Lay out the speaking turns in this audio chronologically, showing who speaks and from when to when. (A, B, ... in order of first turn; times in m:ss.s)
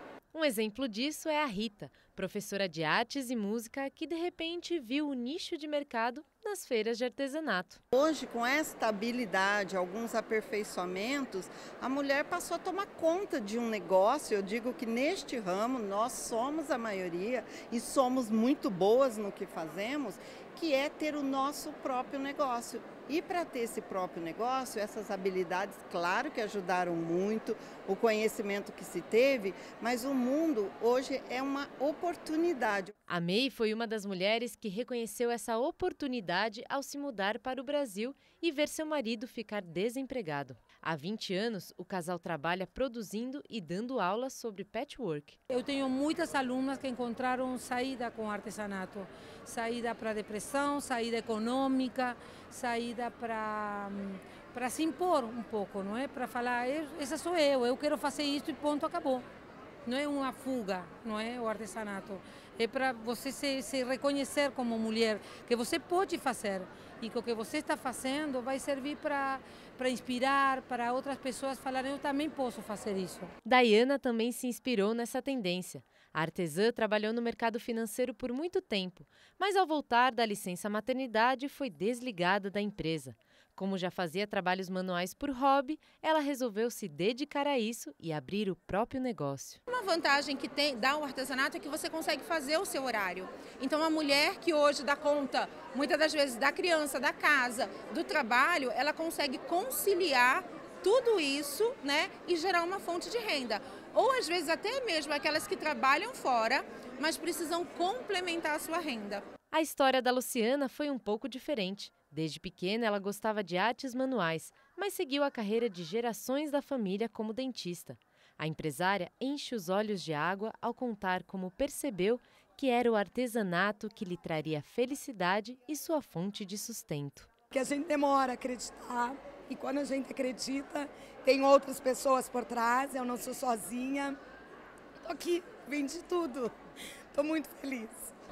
0:00.3-0:07.8 A
0:07.9-0:32.9 B
0:33.1-0:45.4 A
0:45.5-0:59.2 C
0:59.8-1:13.3 C
1:13.4-1:29.6 A
1:29.7-1:49.2 D
1:49.5-2:07.3 A
2:07.5-2:14.2 E
2:15.0-2:16.6 E
2:17.1-2:18.1 E